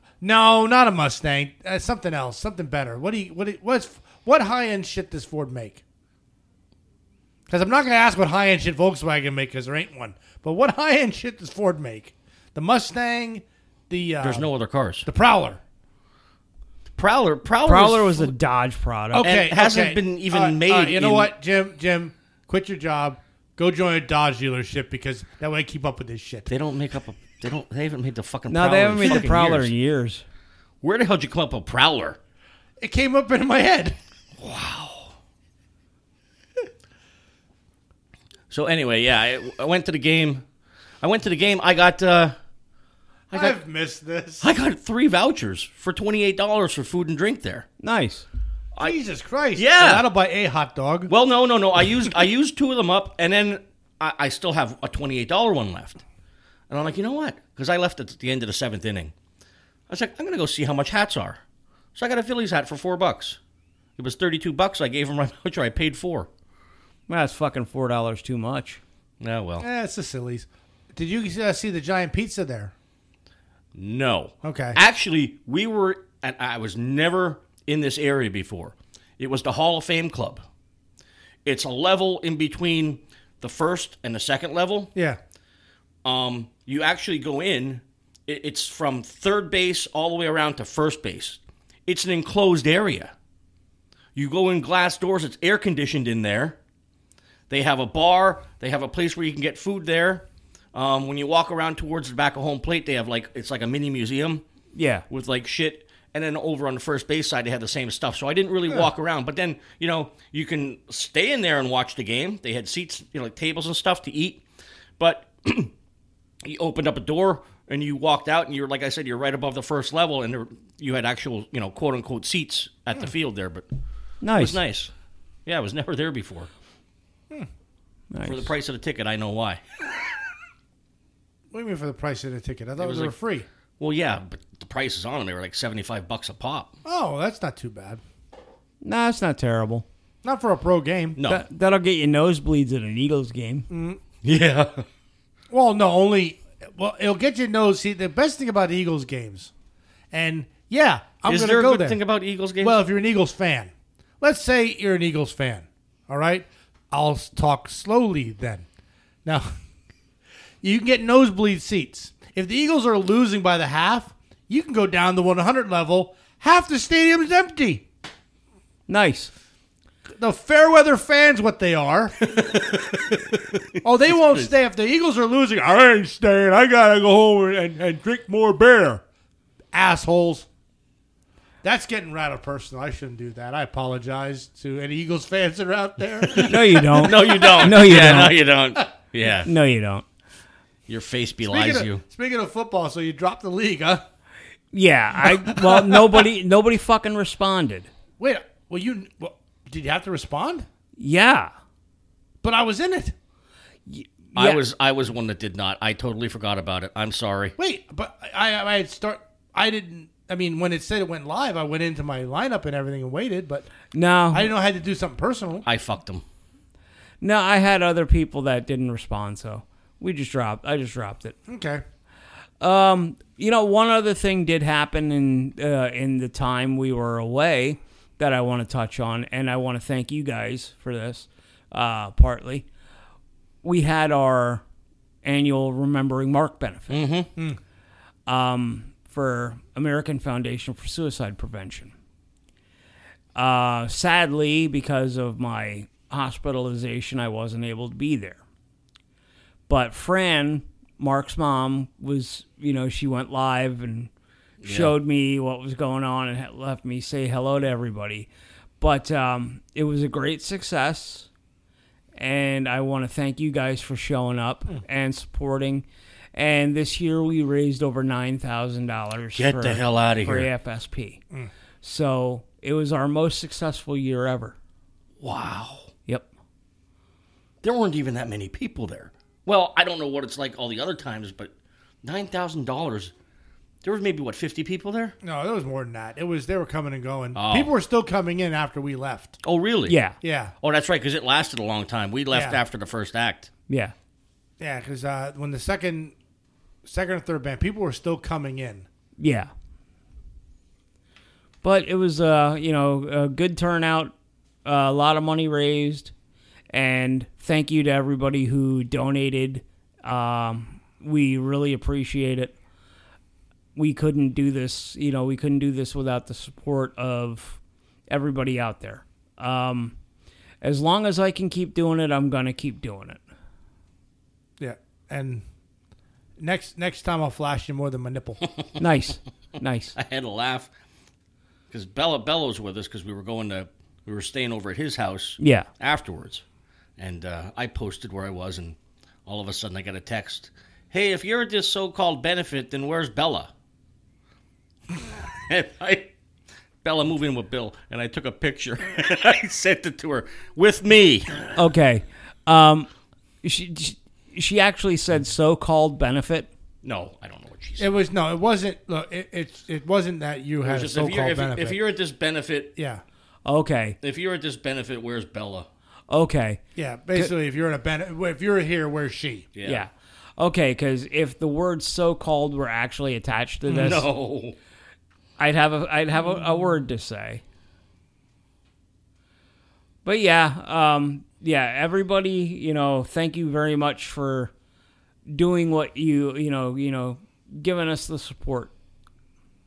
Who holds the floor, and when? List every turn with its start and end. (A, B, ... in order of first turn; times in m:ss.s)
0:00.2-0:05.8 A
0:07.5-0:14.5 A
0:14.2-0:15.1 B
0:15.0-0:15.6 A
0:17.0-0:18.3 B
0:17.7-0:19.3 C
0:19.1-0:26.5 A
0:19.2-0:21.3 B
0:26.5-0:29.7 B
0:28.5-0:30.2 C
0:30.8-0:32.2 B
0:32.8-0:34.0 A
0:34.4-0:35.1 B
0:38.5-0:40.4 B
0:41.0-0:42.4 B
0:43.3-0:44.5 A
0:44.4-0:47.7 B
0:47.8-0:48.3 C
0:48.8-0:51.1 A
0:49.6-0:50.0 B
0:51.1-0:56.0 B
0:56.7-0:59.1 B
0:59.9-1:01.4 B
1:02.0-1:03.4 B
1:04.0-1:06.3 B
1:07.1-1:08.8 C
1:09.2-1:09.7 B
1:09.6-1:12.7 A
1:13.8-1:20.4 B
1:14.4-1:14.8 A
1:21.4-1:24.9 B
1:26.0-1:33.1 B
1:34.2-1:36.6 B
1:37.5-1:44.4 B
1:44.8-1:45.1 C
1:45.1-1:54.4 B
1:55.0-1:55.7 B
1:56.4-2:03.6 B
2:04.2-2:04.6 C
2:04.3-2:04.9 B
2:05.5-2:06.5 B
2:08.1-2:08.5 C
2:08.2-2:09.6 B
2:11.5-2:13.5 A
2:12.8-2:13.2 B
2:13.8-2:16.7 B
2:16.8-2:18.0 A
2:18.8-2:19.9 C
2:20.2-2:21.2 A
2:21.2-2:21.4 B
2:21.3-2:23.7 C
2:23.7-2:24.0 A
2:24.2-2:24.8 B
2:25.5-2:29.5 A
2:30.1-2:32.0 A
2:31.3-2:32.8 B
2:32.6-2:38.7 A
2:39.2-2:39.5 A
2:40.6-2:47.8 A
2:48.9-2:49.3 C
2:50.2-2:52.2 A
2:52.2-2:54.5 B
2:53.8-2:59.0 A
2:59.7-3:00.5 A
3:01.6-3:08.8 A
3:06.3-3:09.5 B
3:06.4-3:08.4 C
3:09.4-3:10.1 C
3:10.9-3:12.0 B
3:11.5-3:14.0 A
3:14.7-3:17.9 C
3:15.3-3:16.2 A
3:18.2-3:20.7 A
3:21.0-3:21.5 C
3:22.4-3:23.2 A
3:23.9-3:24.6 C
3:24.4-3:27.6 B
3:27.6-3:33.7 A
3:33.9-3:34.5 C
3:34.3-3:35.6 A
3:35.6-3:36.2 B
3:37.2-3:41.4 C
3:41.5-3:41.8 A
3:42.6-3:52.7 C
3:53.6-3:54.6 C
3:55.2-3:57.0 C
3:56.9-3:57.3 B
3:58.3-4:01.9 C
4:03.4-4:08.4 C
4:09.7-4:14.1 C
4:14.6-4:14.9 B
4:14.6-4:18.3 C
4:18.8-4:21.3 C
4:22.2-4:31.2 C
4:29.4-4:30.5 B
4:31.8-4:34.6 C
4:35.2-4:35.9 B
4:37.6-4:41.5 B
4:42.0-4:43.1 B
4:43.8-4:45.2 B
4:45.2-4:49.4 A
4:47.4-4:47.7 B
4:49.4-4:50.0 B
4:49.9-4:50.2 C
4:50.2-4:50.5 A
4:50.6-4:53.5 B
4:52.3-4:52.6 A
4:53.7-4:53.9 C
4:54.6-4:56.1 A
4:56.9-4:58.9 A
4:59.2-4:59.5 C
5:01.6-5:04.1 C
5:04.6-5:06.1 C
5:06.7-5:12.5 C
5:13.8-5:17.6 C
5:18.1-5:20.0 C
5:20.6-5:23.2 C
5:24.6-5:25.4 A
5:26.4-5:28.4 A
5:28.4-5:28.8 B
5:28.8-5:30.0 C
5:30.0-5:30.7 B
5:31.7-5:36.4 B
5:35.4-5:35.7 C
5:37.0-5:43.5 B
5:45.3-5:46.1 B
5:46.8-5:51.5 B
5:51.6-5:52.9 C
5:53.4-5:56.5 C
5:56.8-5:57.9 B
5:57.8-6:01.8 A
6:00.6-6:02.7 B
6:02.8-6:03.0 A
6:03.4-6:04.0 C
6:04.0-6:05.7 B
6:06.1-6:06.6 C
6:06.8-6:09.5 A
6:09.6-6:09.8 B
6:09.7-6:14.1 C
6:13.7-6:14.6 B
6:15.4-6:17.4 C
6:20.0-6:24.5 C
6:25.3-6:28.7 C